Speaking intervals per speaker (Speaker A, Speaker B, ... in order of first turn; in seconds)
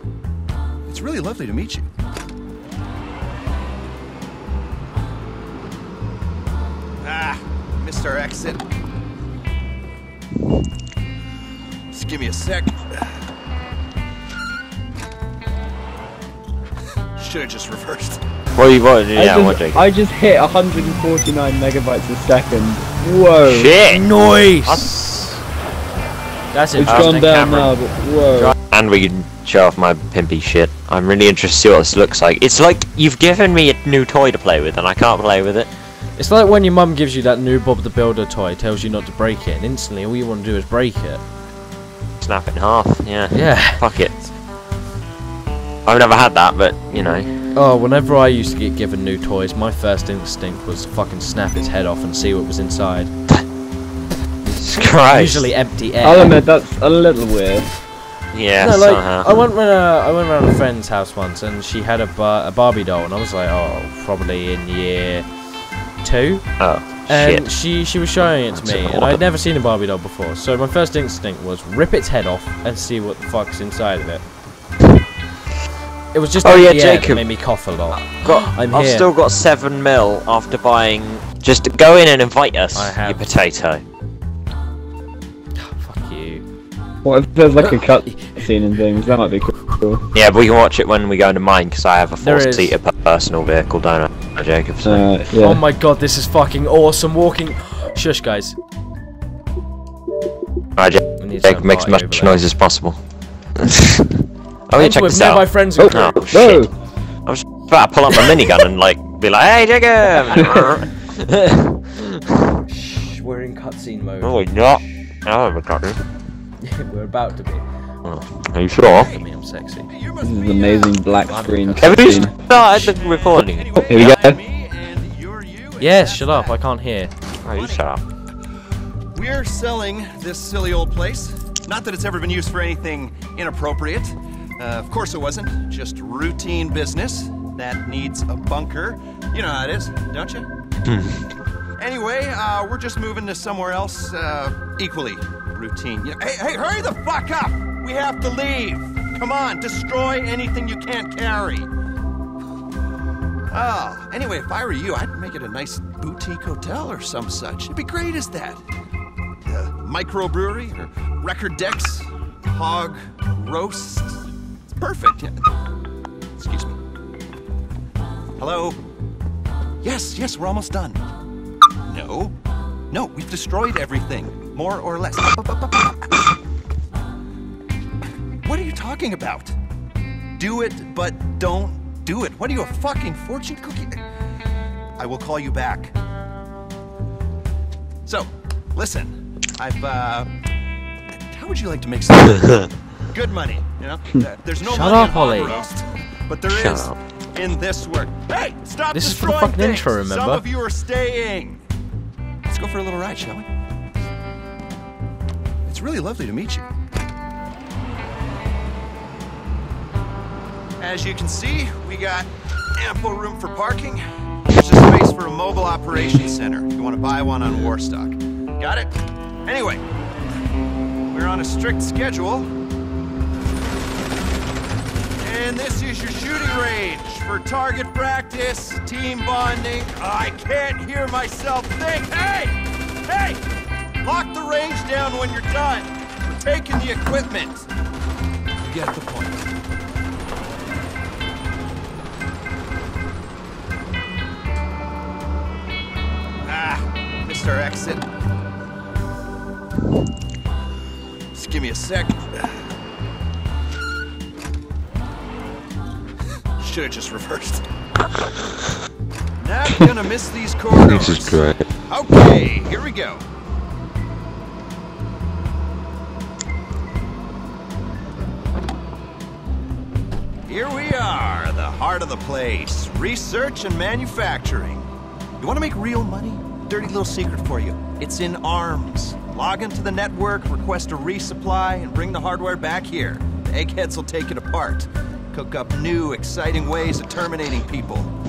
Speaker A: 0.9-1.9, 7.0-8.6, 11.9-12.9, 17.2-18.2, 118.8-119.2, 119.9-126.6, 127.5-127.9, 129.1-140.5, 141.8-151.7, 153.5-158.6, 159.5-165.4, 166.4-166.8, 168.4-168.8, 169.8-171.0, 171.9-172.4, 172.9-176.2, 178.4-179.6, 180.4-184.0, 185.0-186.0, 188.1-190.3, 191.3-201.6, 202.5-203.5, 205.7-206.7, 210.8-218.9, 219.5-219.8, 221.1-222.5, 225.2-233.4, 234.0-237.7, 238.6-239.5, 246.4-248.0, 251.3-252.6, 256.6-257.6, 259.4-263.2, 270.5-274.9, 275.4-288.1
Speaker B: 18.6-19.8, 23.5-24.1, 24.7-24.9, 26.9-27.7, 28.4-35.7, 42.2-44.2, 45.9-47.3, 54.6-55.5, 58.3-59.4, 66.6-67.5, 68.5-69.2, 76.4-77.3, 77.9-83.8, 90.1-95.1, 100.8-103.0, 103.6-106.7, 107.3-112.2, 114.2-116.0, 118.0-119.1, 121.8-124.2, 127.5-128.0, 140.9-141.2, 196.5-197.0, 260.8-261.7
Speaker C: 19.2-23.7, 26.8-28.5, 56.0-57.7, 87.0-90.1, 94.8-95.6, 105.8-106.7, 110.4-110.7, 120.2-122.3, 123.8-124.4
Speaker D: 23.9-25.3, 26.5-27.6, 36.2-41.2, 43.3-44.1, 47.5-53.1, 55.1-56.4, 58.6-65.3, 66.0-66.5, 67.1-74.2, 76.1-79.1, 82.8-83.2, 85.6-86.4, 92.2-92.8, 95.4-98.6, 101.2-102.4, 104.8-106.1, 112.7-114.3, 116.6-117.6, 119.0-119.9, 121.3-122.3, 125.8-127.1, 194.6-195.6, 198.9-200.4